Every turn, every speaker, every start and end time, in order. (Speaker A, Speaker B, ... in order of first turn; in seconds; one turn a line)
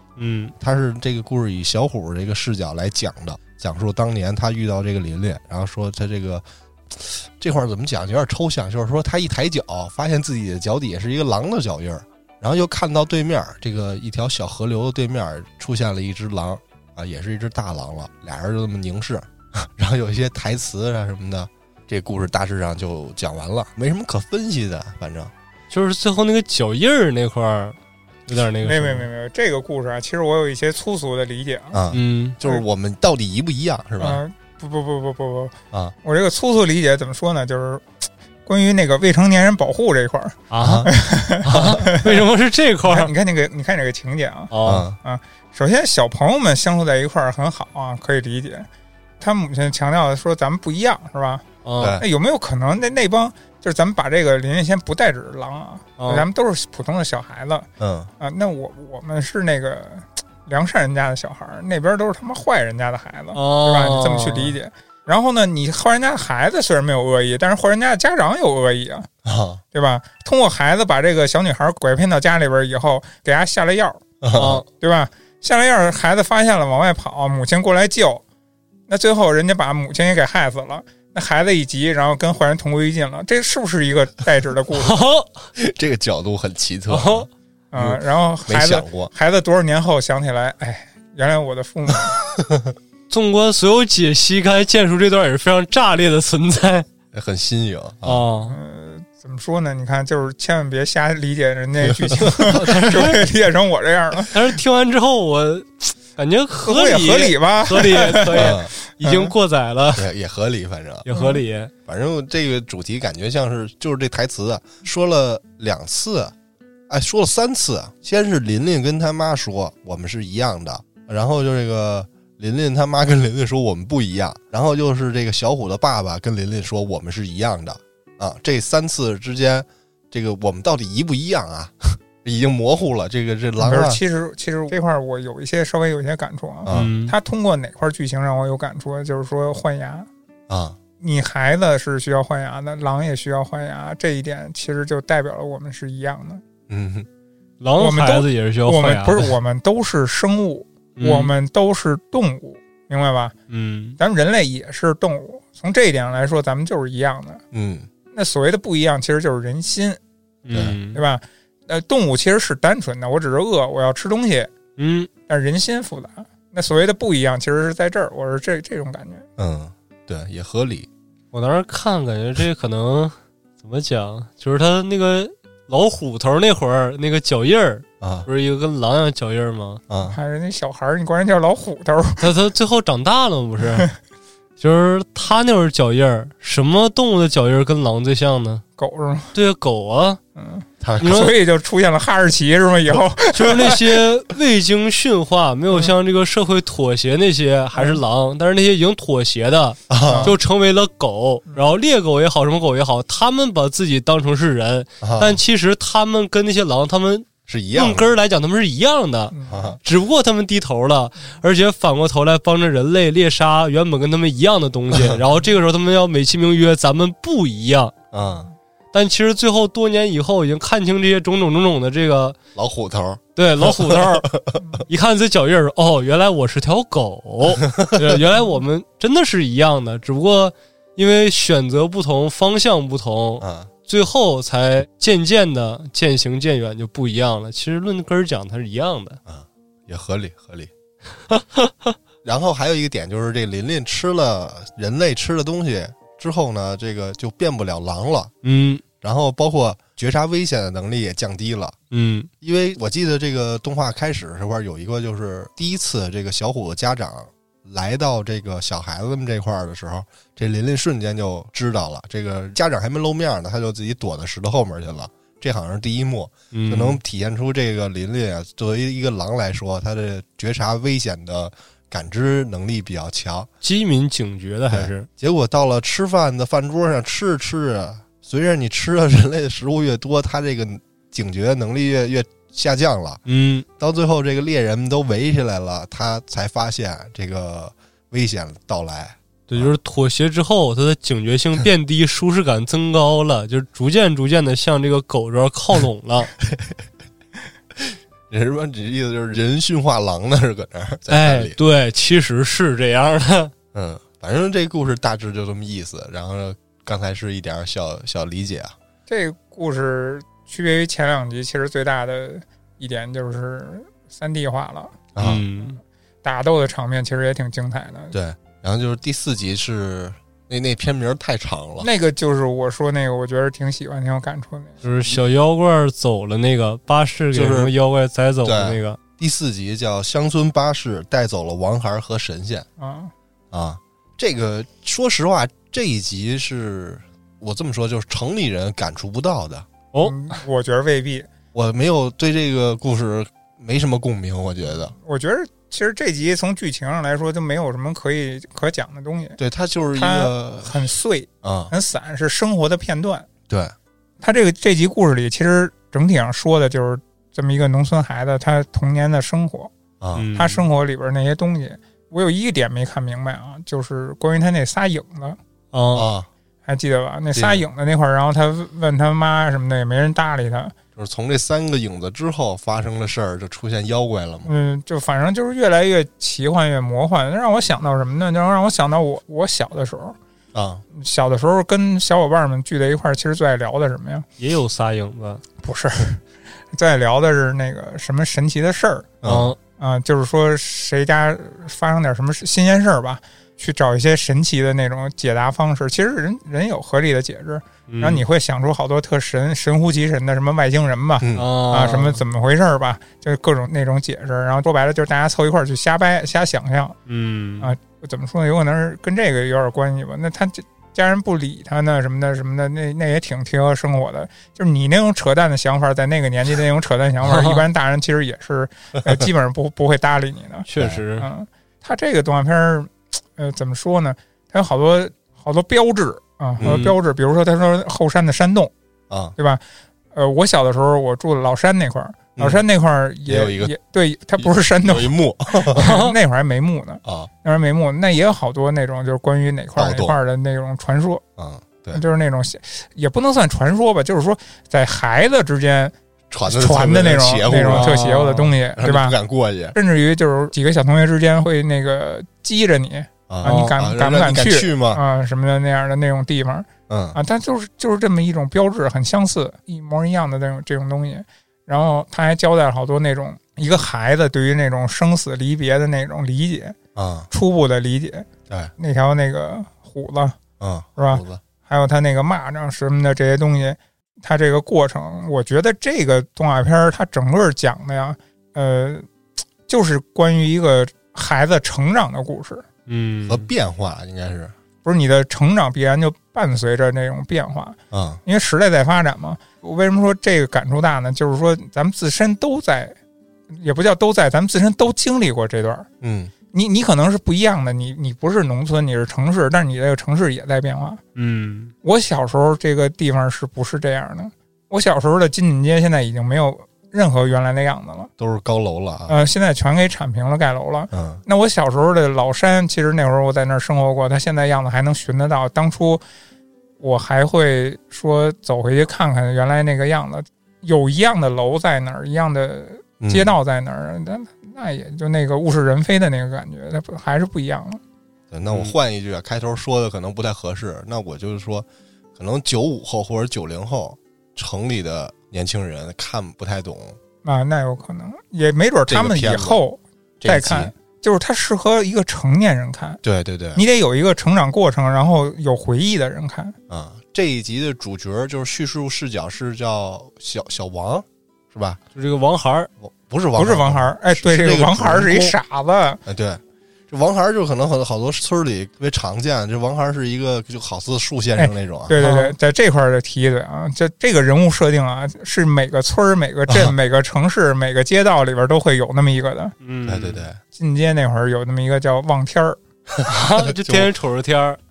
Speaker A: 0.2-0.5
Speaker B: 0.6-25.3
Speaker A: 25.7-29.1
Speaker C: 28.6-31.8
Speaker B: 31.7-34.2
Speaker A: 31.9-32.4
Speaker C: 34.0-37.9
Speaker C: 38.5-42.3
Speaker A: 40.5-40.9
Speaker B: 40.6-40.9
Speaker A: 41.5-43.1
Speaker C: 42.9-44.5
Speaker A: 44.5-44.9
Speaker B: 44.6-45.0
Speaker C: 45.0-48.7
Speaker C: 49.2-51.5
Speaker A: 51.6-52.0
Speaker B: 51.8-52.0
Speaker C: 52.0-57.7
Speaker A: 56.0-56.3
Speaker B: 57.8-58.1
Speaker C: 58.2-69.1
Speaker A: 63.3-64.6
Speaker B: 69.2-69.6
Speaker C: 69.7-74.0
Speaker B: 74.2-74.6
Speaker A: 74.3-74.7
Speaker C: 74.8-78.2
Speaker C: 78.9-85.0
Speaker A: 84.8-85.5
Speaker B: 85.6-89.1
Speaker A: 86.9-87.3
Speaker C: 87.7-92.2
Speaker B: 92.4-92.7
Speaker A: 93.1-96.9
Speaker B: 97.1-98.3
Speaker A: 98.0-98.6
Speaker C: 98.5-104.3
Speaker B: 101.8-102.5
Speaker A: 102.5-103.3
Speaker A: 104.3-110.1
Speaker C: 106.6-109.3
Speaker B: 108.3-108.7
Speaker B: 110.0-111.1
Speaker A: 111.0-111.7
Speaker C: 111.1-111.4
Speaker B: 111.9-116.3
Speaker B: 116.9-134.0
Speaker C: 133.6-140.1
Speaker B: 136.7-136.9
Speaker A: 136.7-137.2
Speaker B: 140.5-140.8
Speaker C: 141.0-146.4
Speaker B: 146.7-147.1
Speaker A: 147.6-149.3
Speaker C: 147.8-153.3
Speaker A: 151.0-151.3
Speaker A: 153.5-154.0
Speaker C: 154.0-157.4
Speaker B: 157.5-157.9
Speaker C: 158.1-160.0
Speaker A: 160.4-161.0
Speaker B: 160.5-160.8
Speaker C: 160.9-164.5
Speaker A: 164.8-165.1
Speaker C: 165.3-169.3
Speaker B: 169.4-170.9
Speaker A: 171.3-179.8
Speaker B: 178.0-178.3
Speaker B: 179.9-180.2
Speaker C: 180.1-182.3
Speaker A: 182.2-183.9
Speaker A: 184.6-188.6
Speaker C: 188.8-189.3
Speaker A: 189.3-190.2
Speaker C: 190.4-194.0
Speaker B: 190.8-191.3
Speaker A: 191.0-191.3
Speaker A: 193.3-217.9
Speaker C: 197.8-198.0
Speaker B: 199.9-200.4
Speaker C: 200.1-200.4
Speaker B: 205.0-205.4
Speaker B: 207.5-208.1
Speaker C: 209.3-209.8
Speaker B: 209.5-209.8
Speaker B: 214.9-215.2
Speaker B: 218.1-218.5
Speaker A: 218.9-222.4
Speaker B: 222.6-224.8
Speaker A: 223.4-224.3
Speaker A: 224.9-239.2
Speaker B: 233.4-233.7
Speaker B: 239.3-240.7
Speaker A: 241.3-241.9
Speaker B: 242.2-248.3
Speaker A: 248.4-248.8
Speaker B: 249.0-251.8
Speaker A: 251.9-252.3
Speaker B: 252.4-273.5
Speaker A: 266.5-267.0
Speaker A: 273.6-275.1
Speaker B: 274.7-283.2
Speaker A: 283.3-283.7
Speaker B: 283.8-289.7
Speaker A: 289.5-296.3
Speaker B: 296.5-296.8
Speaker B: 297.8-301.6
Speaker A: 301.1-303.5
Speaker B: 303.7-308.8
Speaker C: 309.1-315.0
Speaker B: 315.1-315.4
Speaker A: 315.2-315.8
Speaker C: 316.2-318.1
Speaker B: 318.1-321.9
Speaker C: 321.8-324.8
Speaker A: 324.8-329.0
Speaker B: 327.3-327.7
Speaker B: 328.4-332.7
Speaker C: 332.8-333.1
Speaker B: 333.5-339.7
Speaker C: 340.0-341.3
Speaker B: 341.5-344.9
Speaker C: 344.9-349.4
Speaker B: 349.4-350.8
Speaker C: 349.9-353.3
Speaker B: 351.4-351.7
Speaker B: 353.5-353.7
Speaker C: 354.2-359.7
Speaker B: 360.0-360.3
Speaker A: 360.1-360.6
Speaker C: 360.4-365.4
Speaker A: 365.7-366.1
Speaker B: 365.9-366.3
Speaker C: 366.7-370.8
Speaker B: 367.3-367.6
Speaker B: 371.0-374.5
Speaker C: 374.4-380.2
Speaker B: 380.5-380.8
Speaker C: 380.9-384.3
Speaker A: 384.4-385.4
Speaker C: 385.6-389.1
Speaker B: 389.2-389.6
Speaker A: 389.2-389.6
Speaker C: 389.8-407.0
Speaker A: 397.9-398.2
Speaker B: 401.2-401.5
Speaker A: 401.4-402.2
Speaker A: 407.1-407.8
Speaker C: 407.6-420.7
Speaker A: 417.2-417.6
Speaker A: 420.7-421.3
Speaker B: 420.8-421.0
Speaker C: 421.2-428.7
Speaker B: 426.6-426.8
Speaker A: 426.6-427.0
Speaker B: 429.1-429.4
Speaker C: 429.4-429.6
Speaker C: 430.1-435.1
Speaker B: 432.4-432.6
Speaker B: 433.3-433.7
Speaker B: 434.4-435.9
Speaker C: 435.7-441.2
Speaker A: 435.8-436.2
Speaker B: 437.0-437.3
Speaker B: 439.8-440.2
Speaker B: 441.4-442.0
Speaker C: 441.9-445.9
Speaker B: 446.3-448.0
Speaker C: 446.5-449.2
Speaker A: 447.7-448.5
Speaker B: 448.8-449.8
Speaker C: 449.7-466.8
Speaker B: 453.3-455.0
Speaker A: 453.4-453.7
Speaker B: 456.9-457.2
Speaker B: 466.9-467.3
Speaker C: 467.3-470.4
Speaker B: 470.6-471.4
Speaker C: 471.0-479.1
Speaker C: 479.7-482.6
Speaker A: 482.9-483.5
Speaker B: 483.3-484.5
Speaker C: 484.8-492.9
Speaker B: 487.9-488.2
Speaker C: 493.5-495.9
Speaker B: 496.0-496.3
Speaker C: 496.5-501.0
Speaker A: 501.2-501.7
Speaker C: 501.8-508.1
Speaker B: 508.2-509.1
Speaker C: 509.1-516.0
Speaker B: 510.9-511.2
Speaker C: 516.8-527.8
Speaker B: 523.0-523.3
Speaker B: 528.3-537.0
Speaker C: 537.2-543.0
Speaker B: 538.9-539.6
Speaker B: 540.2-540.7
Speaker B: 543.0-543.6
Speaker C: 543.5-546.6
Speaker B: 546.7-551.8
Speaker A: 552.0-552.7
Speaker B: 552.8-555.4
Speaker C: 553.4-556.0
Speaker B: 556.1-562.0
Speaker C: 561.4-569.5
Speaker A: 562.0-562.4
Speaker B: 566.5-566.7
Speaker A: 569.6-570.2
Speaker B: 569.9-570.4
Speaker C: 570.5-572.6
Speaker B: 572.9-573.9
Speaker A: 573.0-574.6